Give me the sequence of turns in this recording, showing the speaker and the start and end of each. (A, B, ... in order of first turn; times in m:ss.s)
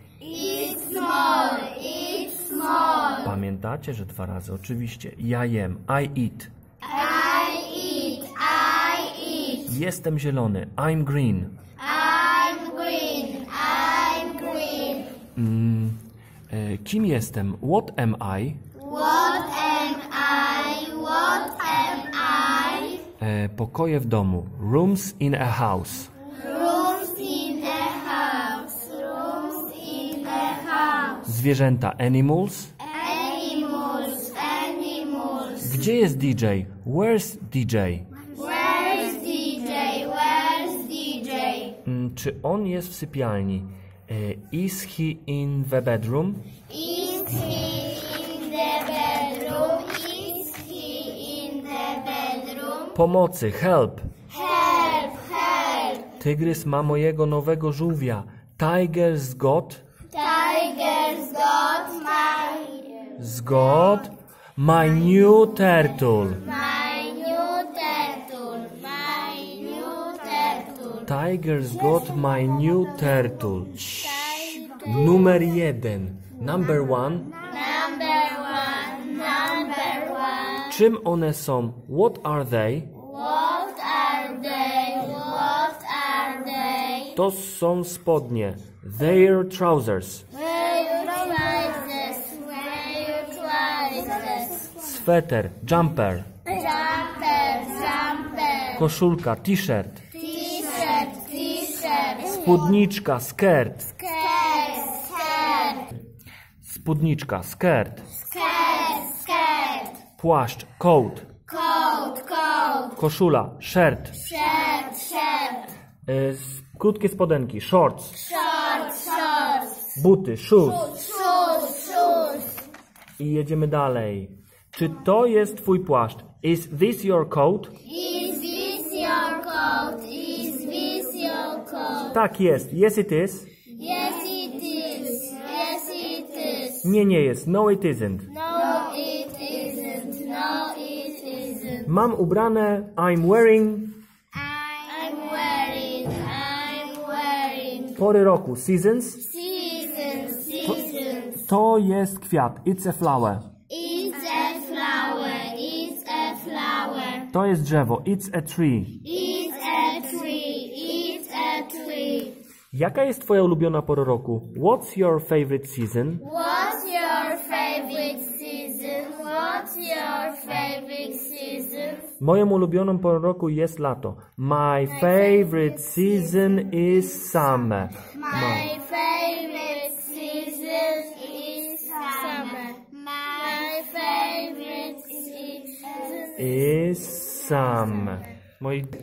0:00.2-0:03.3 A
0:03.2-0:06.5 B
0:06.8-0:09.7 A
0:09.7-0:11.6 B
0:11.8-0:15.2 A
0:15.4-0:18.6 B
0:18.7-0:23.1 A
0:23.2-0:26.1 B
0:26.3-0:31.3 A
0:31.2-0:32.7 B
0:32.8-0:35.8 A
0:35.6-0:38.1 B
0:38.3-0:41.8 A
0:41.8-0:46.5 B
0:46.7-0:53.0 A
0:52.9-0:54.1 B
0:54.3-0:56.1 A
0:56.2-0:59.8 B
1:00.1-1:03.2 A
1:03.2-1:06.4 B
1:06.3-1:11.1 A
1:11.0-1:17.4 B
1:13.9-1:15.3 A
1:17.4-1:20.8 A
1:20.6-1:22.9 B
1:22.9-1:27.2 A
1:27.1-1:30.2 B
1:30.3-1:34.7 A
1:34.7-1:36.3 B
1:36.4-1:38.8 A
1:38.7-1:40.0 B
1:40.1-1:42.6 A
1:42.3-1:43.9 B
1:43.9-1:45.9 A
1:46.6-1:48.0 B
1:48.1-1:50.0 A
1:50.2-1:51.3 B
1:51.5-1:53.0 A
1:53.0-1:54.2 B
1:54.2-1:55.7 A
1:56.0-1:58.2 B
1:58.1-1:59.9 A
1:59.9-2:01.0 B
2:00.7-2:02.6 A
2:03.2-2:07.7 B
2:07.8-2:12.2 A
2:12.1-2:13.5 B
2:13.7-2:16.8 A
2:16.8-2:18.3 B
2:18.3-2:21.9 A
2:21.8-2:23.9 B
2:24.4-2:28.0 A
2:28.0-2:29.2 B
2:29.2-2:31.4 A
2:31.4-2:33.5 B
2:33.7-2:37.3 A
2:37.3-2:39.0 B
2:39.0-2:42.4 A
2:42.7-2:46.2 B
2:46.2-2:52.1 A
2:52.2-2:58.7 B
2:54.9-2:55.6 A
2:58.1-3:06.6 A
3:06.4-3:08.9 B